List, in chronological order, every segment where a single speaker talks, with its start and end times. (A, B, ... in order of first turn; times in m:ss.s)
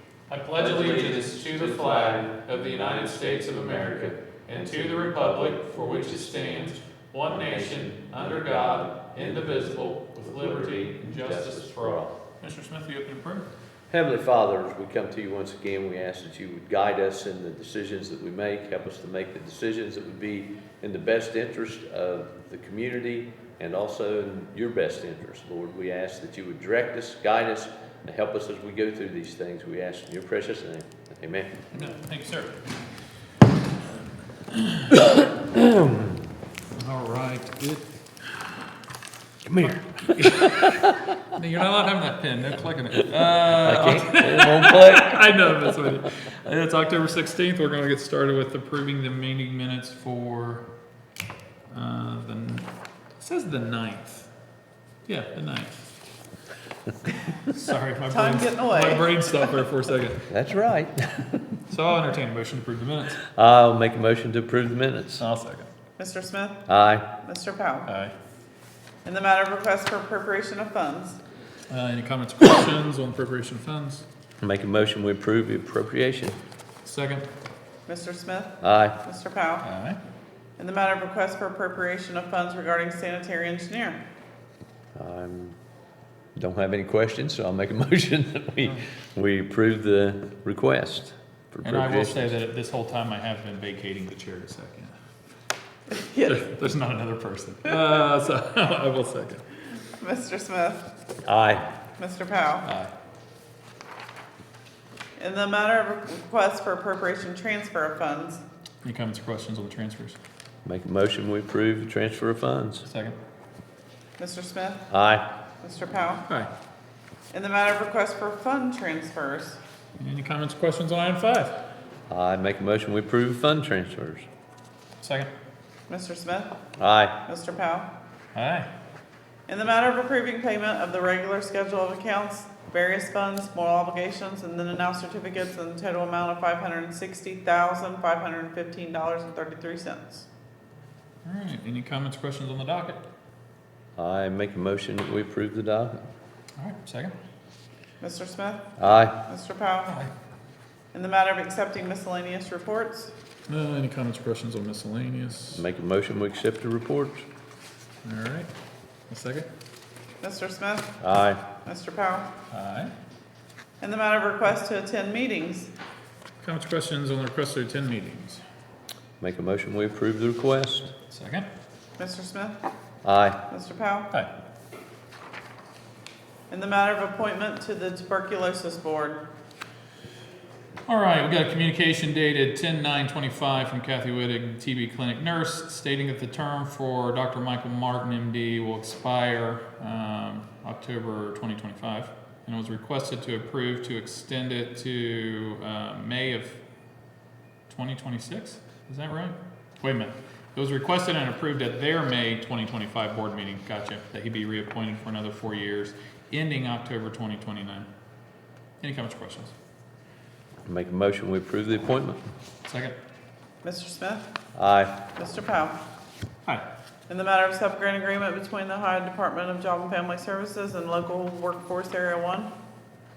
0:00.3-0:13.5 A
0:00.6-0:12.1 B
0:13.9-0:31.7 B
0:31.7-0:32.6 A
0:34.5-0:35.0 A
0:35.5-0:36.1 B
0:36.7-0:37.8 A
0:39.4-0:41.0 B
0:39.6-0:50.6 A
0:43.4-0:45.9 B
0:51.7-0:54.3 A
0:55.1-0:55.8 A
0:57.1-1:00.3 A
0:58.1-0:59.6 C
1:00.3-1:01.6 B
1:01.7-1:03.2 A
1:03.2-1:05.2 B
1:05.2-1:05.7 A
1:06.0-1:06.6 C
1:06.7-1:07.0 B
1:07.2-1:07.9 C
1:07.9-1:08.1 A
1:09.0-1:11.2 C
1:11.7-1:14.0 A
1:14.4-1:16.4 B
1:16.8-1:17.3 A
1:17.9-1:19.6 C
1:18.6-1:19.0 B
1:19.6-1:20.0 A
1:20.6-1:24.0 C
1:24.9-1:25.6 B
1:26.4-1:32.4 B
1:31.6-1:34.9 A
1:35.9-1:36.4 C
1:36.2-1:39.4 A
1:40.0-1:40.8 C
1:41.2-1:41.7 B
1:42.0-1:42.7 C
1:42.6-1:42.9 A
1:45.2-1:48.4 C
1:48.8-1:50.2 A
1:50.6-1:52.8 B
1:52.9-1:53.2 A
1:54.2-1:54.8 C
1:54.9-1:55.2 B
1:55.6-1:56.2 C
1:57.3-1:59.6 C
2:00.0-2:01.6 A
2:02.1-2:04.3 B
2:05.0-2:05.3 A
2:05.9-2:06.5 C
2:06.8-2:07.2 B
2:07.2-2:07.9 C
2:08.3-2:08.7 A
2:09.5-2:20.3 C
2:21.2-2:23.0 A
2:24.0-2:26.0 B
2:26.6-2:27.1 A
2:28.0-2:28.7 C
2:28.8-2:29.2 B
2:29.2-2:30.0 C
2:30.9-2:33.1 C
2:33.5-2:35.6 A
2:35.5-2:37.2 B
2:38.0-2:38.5 A
2:39.1-2:39.5 A
2:40.2-2:40.9 C
2:41.0-2:41.4 B
2:41.6-2:42.3 C
2:42.5-2:42.9 A
2:43.8-2:45.7 C
2:46.4-2:48.4 A
2:49.2-2:50.9 B
2:51.1-2:51.4 A
2:52.0-2:52.6 C
2:53.0-2:53.4 B
2:53.5-2:54.1 C
2:56.5-2:59.2 C
3:00.9-3:16.6 A
3:17.7-3:27.9 A
3:28.8-3:29.5 A
3:30.6-3:32.2 B
3:32.6-3:33.0 A
3:33.6-3:34.3 C
3:34.5-3:35.0 B
3:35.1-3:35.8 C
3:37.1-3:42.5 C